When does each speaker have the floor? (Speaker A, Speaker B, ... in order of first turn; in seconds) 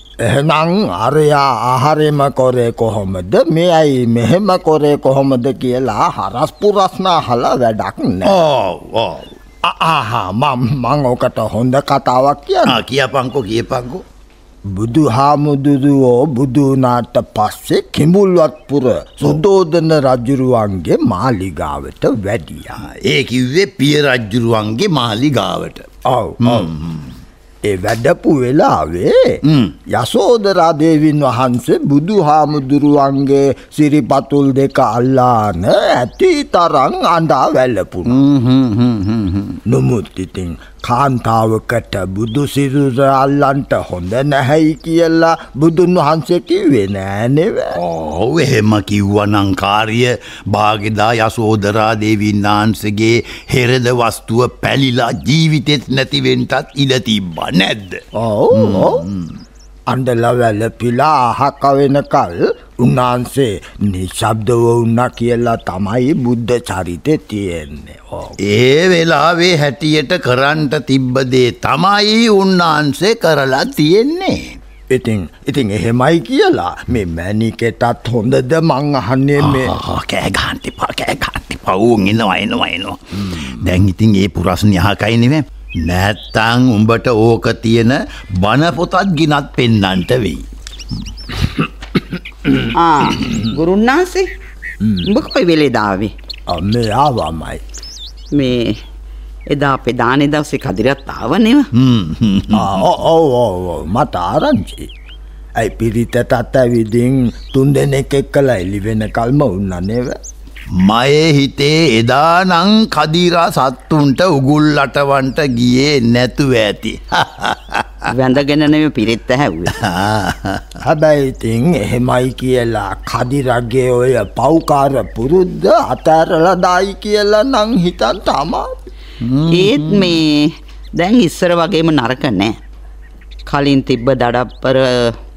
Speaker A: 0.2-8.4, 9.6-12.8, 14.7-22.8, 26.1-26.7, 27.6-38.2, 39.7-47.8, 58.1-59.1, 59.9-68.4, 74.9-79.8, 94.8-95.1, 96.5-97.6, 102.5-104.9, 105.6-110.2, 120.8-128.8
Speaker B: 8.2-9.3, 12.7-14.0, 22.8-25.9, 26.4-27.1, 29.5-29.8, 38.1-39.6, 47.8-58.0, 58.5-59.4, 68.4-74.6, 79.4-90.4, 101.7-102.7, 110.8-118.0, 119.7-120.7, 129.2-130.2
Speaker C: 92.8-94.3, 95.1-96.1, 98.3-98.8, 99.5-101.7, 118.1-119.7, 129.5-132.6, 133.5-135.1